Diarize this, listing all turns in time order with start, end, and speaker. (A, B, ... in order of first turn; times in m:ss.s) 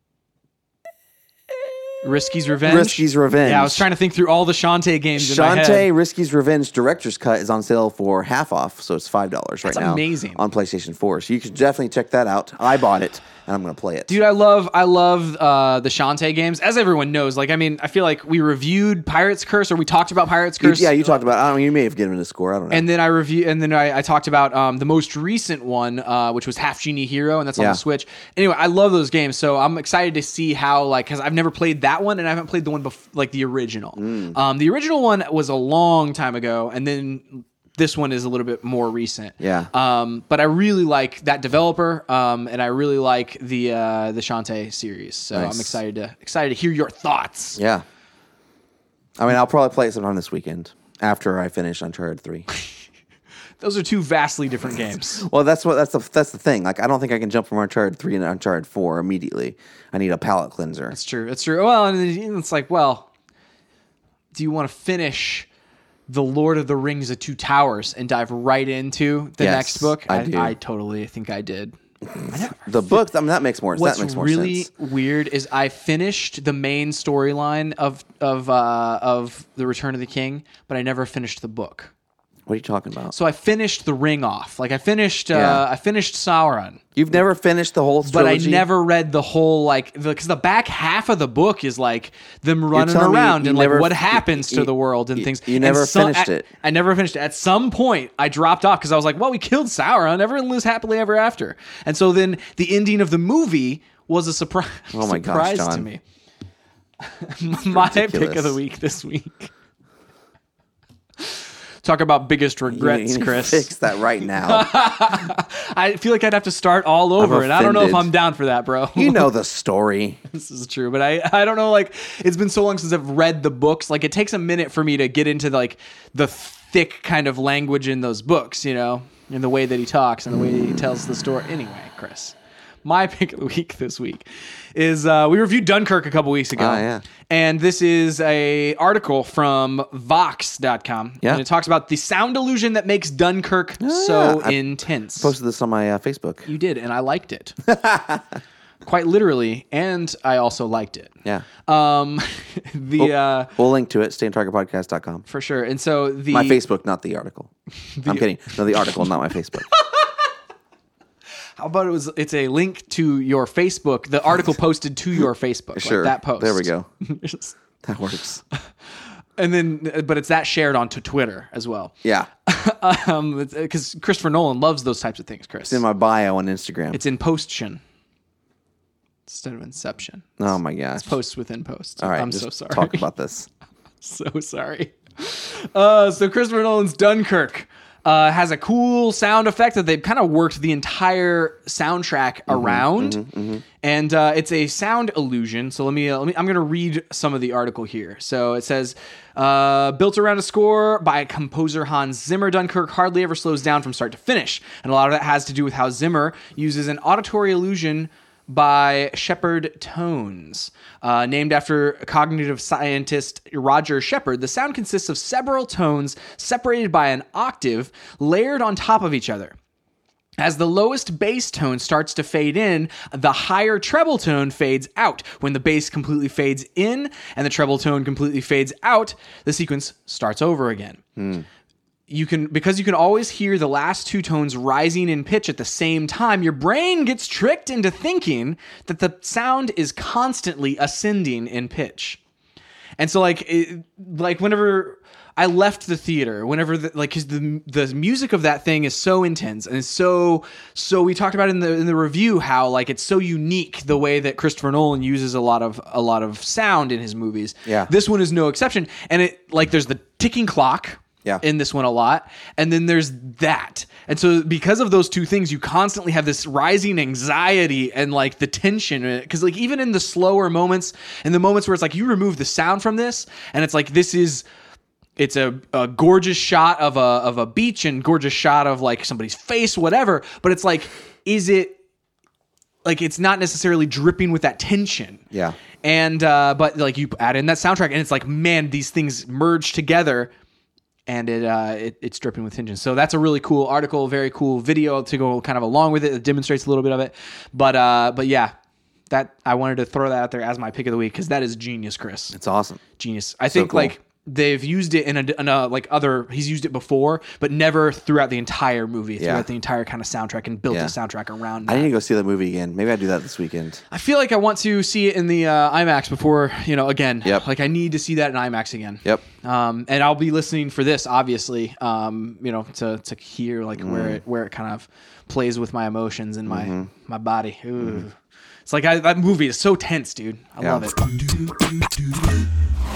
0:02.0-0:05.9 A
0:02.6-0:03.9 B
0:05.2-0:14.2 B
0:09.6-0:10.4 A
0:14.1-0:21.2 A
0:20.6-0:22.9 B
0:22.7-0:47.6 A
0:34.0-0:34.4 B
0:39.4-0:39.7 B
0:45.3-0:45.8 B
0:47.6-0:47.8 B
0:49.2-0:52.5 B
0:53.6-0:55.3 A
0:55.2-1:01.0 B
1:00.9-1:03.1 A
1:04.3-1:05.5 A
1:06.1-1:13.1 A
1:09.4-1:10.6 B
1:12.2-1:14.7 B
1:13.7-1:21.9 A
1:22.5-1:23.1 B
1:23.1-1:26.8 A
1:25.3-1:25.6 B
1:27.0-1:28.7 B
1:28.1-1:46.0 A
1:32.7-1:36.5 B
1:44.9-1:45.9 B
1:47.1-1:49.5 A
1:47.5-1:48.6 B
1:51.2-1:59.3 A
1:52.7-1:54.7 B
1:57.2-1:58.1 B
1:59.0-2:00.2 B
2:00.3-2:25.4 A
2:16.6-2:17.0 B
2:23.8-2:24.6 B
2:25.2-2:26.5 B
2:26.5-2:27.6 A
2:27.7-2:28.2 B
2:28.8-2:31.2 A
2:31.7-2:33.5 A
2:33.0-2:35.2 B
2:35.3-2:36.6 A
2:36.3-2:37.5 B
2:38.0-2:38.3 A
2:38.0-2:39.7 B
2:39.8-2:40.1 A
2:41.6-2:47.6 A
2:45.8-2:46.9 B
2:47.8-2:48.4 B
2:49.4-2:52.0 A
2:52.0-2:52.3 B
2:52.5-2:55.8 A
2:55.7-2:57.0 B
2:56.9-2:57.8 A
2:59.3-3:00.4 A
3:00.4-3:01.1 B
3:01.0-3:03.0 A
3:02.0-3:03.5 B
3:04.0-3:13.2 A
3:12.5-3:13.6 B
3:13.8-3:39.6 A
3:40.4-3:51.0 A
3:51.2-3:51.5 B
3:52.1-4:02.2 A
4:03.0-4:34.4 A
4:17.6-4:17.9 B
4:35.2-4:41.8 A
4:42.8-4:45.2 A
4:45.3-4:45.6 B
4:45.8-4:50.3 A
4:51.1-4:58.5 A
4:59.1-5:02.4 A
5:02.3-5:02.8 B
5:03.0-5:11.9 A
5:03.5-5:03.9 B
5:09.2-5:09.5 B
5:10.7-5:10.9 B
5:11.7-5:13.8 B
5:13.9-5:28.2 A
5:23.8-5:24.2 B
5:26.5-5:26.9 B
5:28.7-5:31.5 A
5:30.6-5:30.9 B